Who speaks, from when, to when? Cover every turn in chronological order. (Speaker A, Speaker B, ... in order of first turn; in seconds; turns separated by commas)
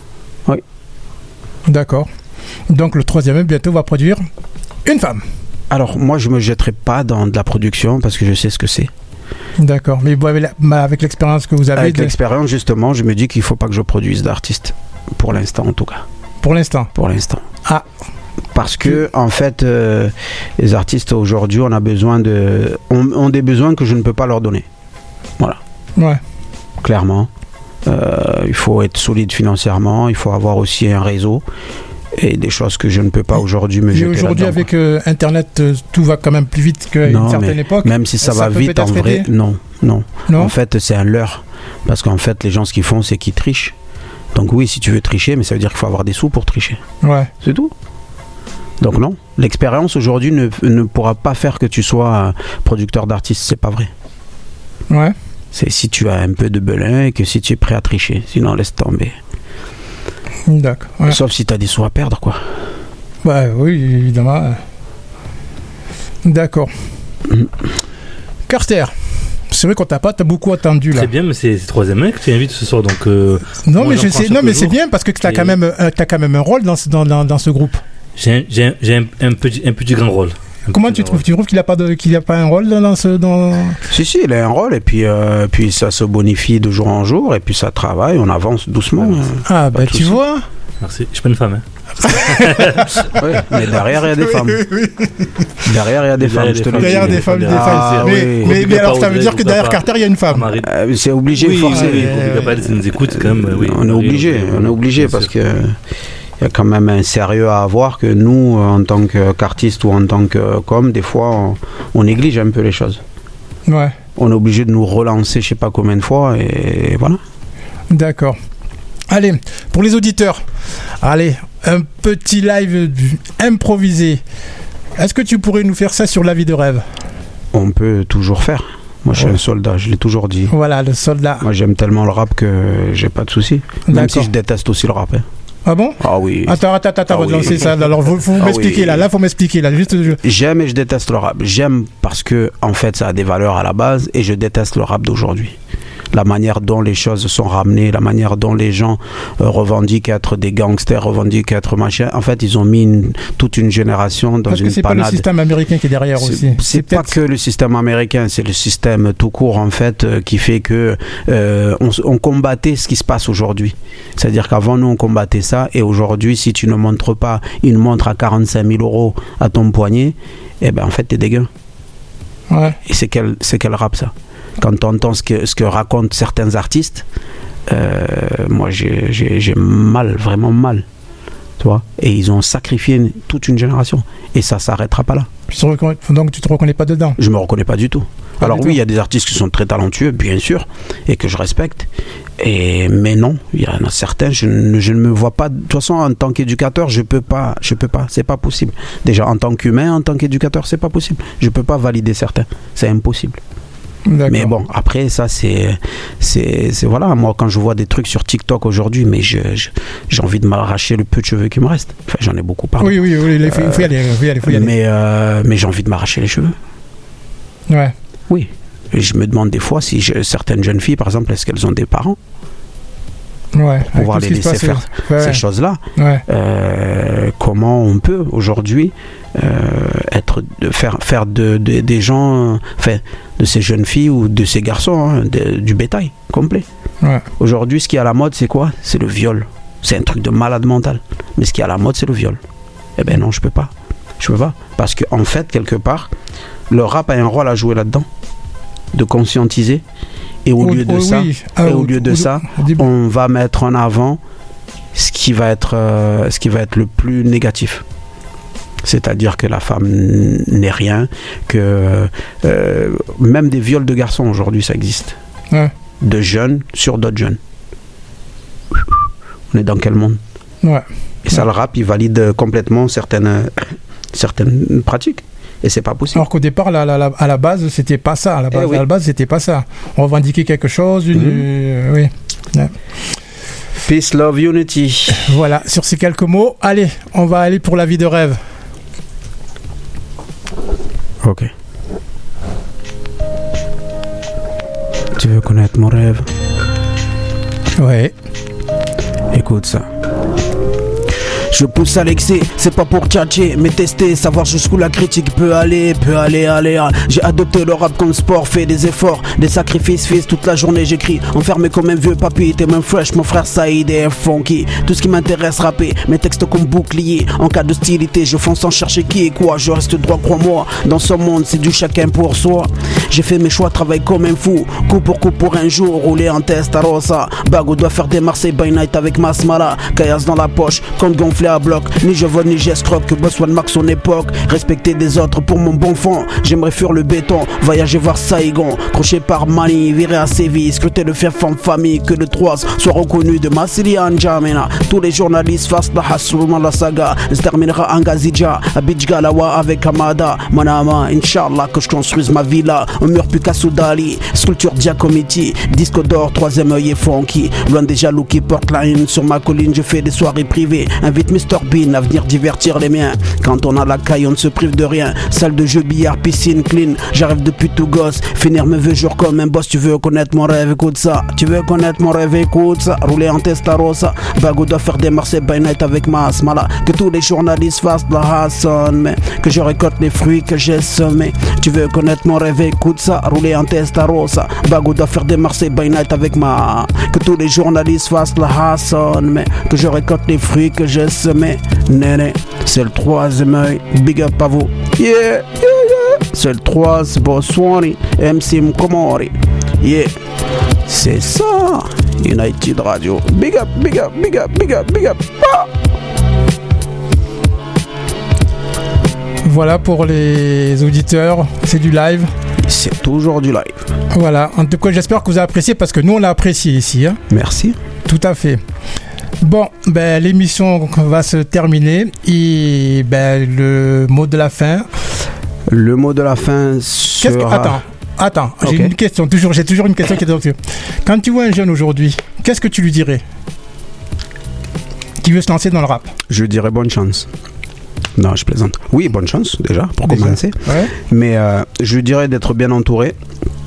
Speaker A: 1.7-2.0, Speaker A: 2.7-4.2, Speaker A: 4.8-5.2, Speaker B: 5.7-8.9, Speaker A: 9.6-12.1, Speaker B: 11.8-16.0, Speaker A: 16.4-16.9, Speaker B: 16.9-17.4, Speaker B: 18.5-24.6, Speaker B: 26.8-27.3, Speaker B: 27.9-31.4, Speaker B: 32.1-34.6, Speaker A: 33.9-39.3, Speaker B: 37.0-43.7, Speaker A: 40.3-40.5, Speaker B: 44.3-46.8, Speaker A: 47.0-47.3, Speaker B: 47.4-47.7, Speaker B: 48.8-53.9, Speaker A: 54.9-55.1, Speaker B: 55.5-59.1, Speaker A: 60.5-61.2, Speaker B: 61.1-62.4, Speaker A: 63.2-64.6, Speaker A: 66.2-66.7, Speaker A: 68.5-68.9, Speaker A: 69.5-71.1, Speaker C: 70.9-75.6, Speaker A: 73.6-77.8, Speaker C: 78.2-81.2, Speaker A: 80.7-83.8, Speaker B: 83.9-90.2, Speaker A: 89.5-90.4, Speaker C: 90.8-93.1, Speaker A: 92.0-95.4, Speaker B: 93.1-94.7, Speaker B: 95.6-98.7, Speaker C: 96.2-100.7, Speaker A: 96.8-100.5, Speaker B: 100.6-102.5, Speaker C: 101.3-105.3, Speaker A: 101.6-102.6, Speaker B: 103.1-105.7, Speaker B: 106.4-113.0, Speaker A: 113.7-113.9, Speaker B: 114.2-117.2, Speaker A: 117.9-118.3, Speaker A: 119.1-120.4, Speaker A: 121.0-124.2, Speaker A: 125.0-126.8, Speaker B: 127.5-130.5, Speaker A: 130.5-131.4, Speaker B: 131.4-135.2, Speaker A: 133.9-134.3, Speaker A: 135.7-140.2, Speaker B: 136.0-136.6, Speaker B: 137.1-137.6, Speaker B: 138.4-139.0, Speaker B: 140.2-145.5, Speaker B: 146.1-155.2, Speaker A: 154.5-157.1, Speaker B: 156.2-171.5, Speaker A: 172.5-172.8, Speaker B: 172.8-177.0, Speaker B: 177.7-180.8, Speaker B: 181.6-185.3, Speaker A: 185.5-187.2, Speaker B: 187.2-203.4, Speaker A: 188.4-188.8, Speaker A: 204.1-204.5, Speaker B: 204.3-213.9, Speaker A: 212.8-214.7, Speaker B: 214.4-216.5, Speaker A: 217.7-217.9, Speaker B: 218.3-222.2, Speaker A: 223.5-225.4, Speaker B: 223.9-236.7, Speaker A: 225.9-226.2, Speaker B: 237.4-242.4, Speaker B: 243.0-246.1, Speaker B: 246.7-248.1, Speaker B: 248.9-249.8, Speaker B: 250.4-254.2, Speaker A: 250.6-252.8, Speaker B: 254.9-257.8, Speaker B: 258.8-265.2, Speaker B: 266.0-267.4, Speaker B: 269.5-270.2, Speaker B: 271.2-276.2, Speaker A: 276.1-282.7, Speaker B: 278.5-278.8, Speaker B: 281.1-281.4, Speaker B: 283.8-285.3, Speaker A: 285.2-288.4, Speaker B: 291.2-291.5, Speaker B: 295.1-296.2, Speaker A: 297.8-298.1, Speaker B: 299.3-299.9, Speaker B: 301.5-400.1, Speaker B: 400.9-405.7, Speaker A: 409.4-412.3, Speaker B: 412.7-413.9, Speaker A: 414.1-417.2, Speaker B: 417.3-417.8, Speaker A: 418.1-418.6, Speaker A: 419.4-424.9, Speaker B: 425.7-427.8, Speaker A: 427.2-433.2, Speaker B: 428.6-428.9, Speaker A: 435.2-436.1, Speaker B: 436.3-437.3, Speaker B: 438.2-443.1, Speaker A: 440.1-440.9